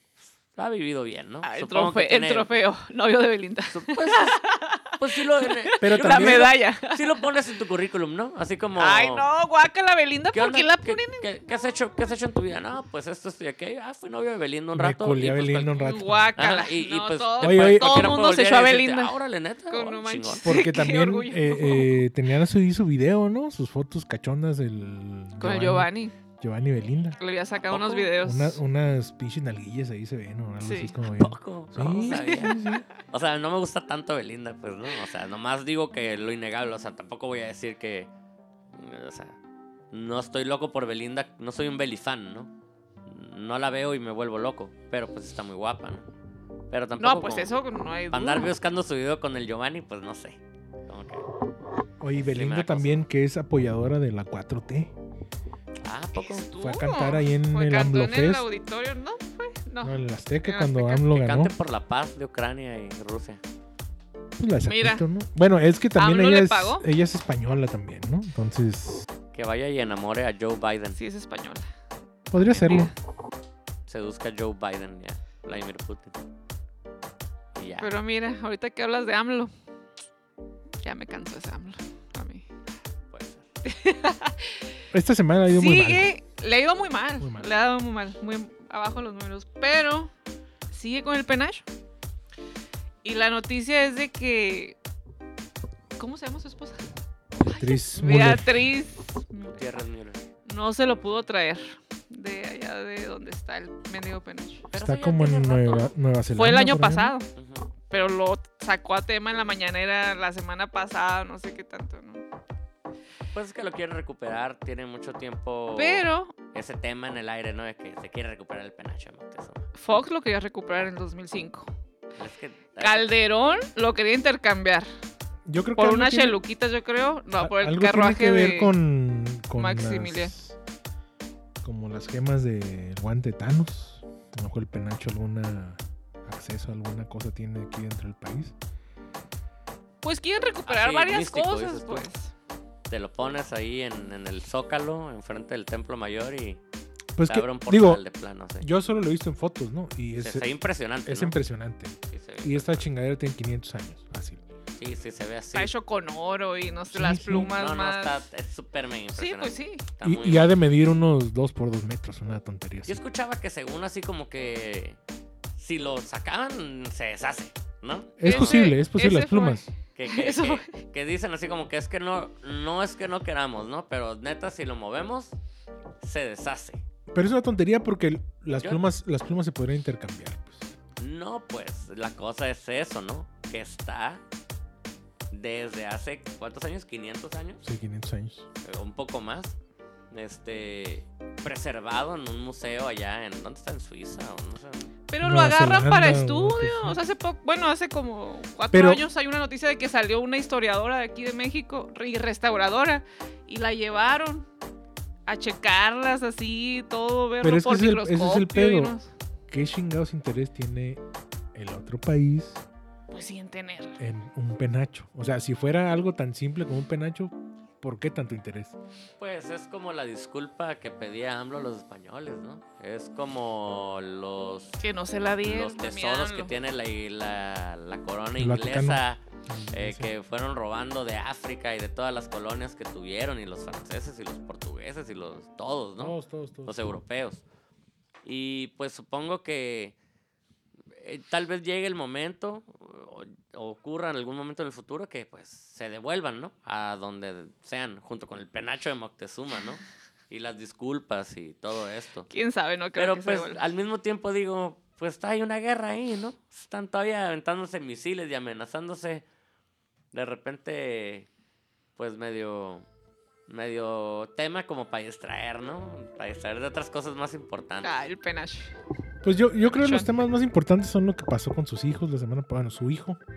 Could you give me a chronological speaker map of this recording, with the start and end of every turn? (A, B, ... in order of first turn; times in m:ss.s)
0:00.5-0:02.5 A
0:01.4-0:07.2 B
0:03.7-0:04.4 A
0:05.0-0:09.3 A
0:05.8-0:06.5 C
0:08.8-0:11.3 B
0:10.3-0:20.5 A
0:14.8-0:16.3 C
0:15.8-0:19.1 B
0:17.4-0:18.2 C
0:19.7-0:22.0 B
0:20.4-0:25.9 C
0:25.4-0:26.1 B
0:26.4-0:27.2 C
0:27.2-0:28.6 B
0:27.7-0:28.1 A
0:28.2-0:32.9 C
0:30.6-0:30.9 B
0:31.0-0:38.1 A
0:31.9-0:32.6 B
0:38.7-0:39.4 A
0:39.9-0:42.5 A
0:43.1-0:46.1 A
0:46.7-0:47.5 A
0:47.0-0:48.5 B
0:48.1-0:51.3 A
0:52.0-0:54.9 C
0:52.2-0:53.0 A
0:55.8-0:56.5 A
0:56.2-1:01.0 B
0:56.6-0:58.5 C
0:59.8-1:01.5 C
1:01.0-1:03.4 A
1:04.4-1:09.0 C
1:04.7-1:05.0 B
1:06.0-1:06.9 B
1:09.3-1:11.0 A
1:11.0-1:11.7 B
1:12.3-1:12.9 C
1:12.4-1:12.9 B
1:13.9-1:16.2 A
1:17.6-1:17.9 A
1:17.8-1:19.5 B
1:20.8-1:22.5 B
1:23.1-1:23.5 A
1:23.6-1:24.7 B
1:24.9-1:26.1 C
1:25.6-1:30.1 B
1:27.2-1:27.5 C
1:30.7-1:31.7 B
1:33.0-1:34.8 B
1:36.0-1:36.9 B
1:37.4-1:38.7 C
1:37.4-1:39.8 B
1:39.5-1:40.2 A
1:40.5-1:44.7 B
1:44.7-1:45.9 A
1:44.8-1:47.1 C
1:46.4-1:47.3 B
1:47.3-1:47.8 A
1:47.9-1:52.2 B
1:53.3-1:59.7 A
1:55.8-1:56.4 B
1:59.8-2:01.7 B
2:02.2-2:03.1 A
2:02.8-2:04.9 B
2:05.5-2:06.4 C
2:05.8-2:08.7 B
2:07.4-2:10.6 C
2:09.6-2:10.3 B
2:11.6-2:18.6 C
2:20.0-2:22.3 B
2:20.7-2:22.1 A
2:22.9-2:26.6 A
2:27.2-2:28.0 C
2:27.2-2:28.7 A
2:28.6-2:30.5 C
2:30.2-2:31.4 A
2:31.1-2:34.4 C
2:32.1-2:32.9 A
2:34.8-2:35.7 A
2:35.5-2:38.2 B
2:36.9-2:37.5 C
2:37.3-2:40.5 A
2:39.1-2:39.8 B
2:40.0-2:43.0 C
2:42.8-2:45.0 A
2:45.6-2:48.7 A
2:48.2-2:49.7 C
2:48.2-2:50.8 B
2:50.0-2:55.4 A
2:56.0-2:56.8 A
2:57.1-3:00.7 C
2:58.5-2:58.8 A
3:01.0-3:04.2 A
3:05.3-3:07.6 A
3:07.6-3:08.5 C
3:08.6-3:09.6 A
3:10.1-3:14.9 A
3:15.1-3:24.5 B
3:15.2-3:17.0 C
3:18.7-3:19.0 C
3:25.3-3:29.1 B
3:27.4-3:28.9 C
3:29.5-3:31.0 C
3:31.5-3:32.6 C
3:33.1-3:34.0 B
3:34.0-3:38.8 C
3:39.2-3:44.8 A
3:44.8-3:46.5 B
3:45.4-3:49.2 A
3:48.4-3:50.1 C
3:49.7-3:57.4 A
3:56.0-3:56.8 C
3:58.2-4:00.0 A
4:00.9-4:12.3 A
4:12.3-4:13.6 B
4:13.0-4:19.2 A
4:20.1-4:21.3 A
4:22.0-4:22.8 A
4:23.5-4:27.9 A
4:27.8-4:28.8 B
4:29.2-4:33.2 C
4:29.7-4:30.1 B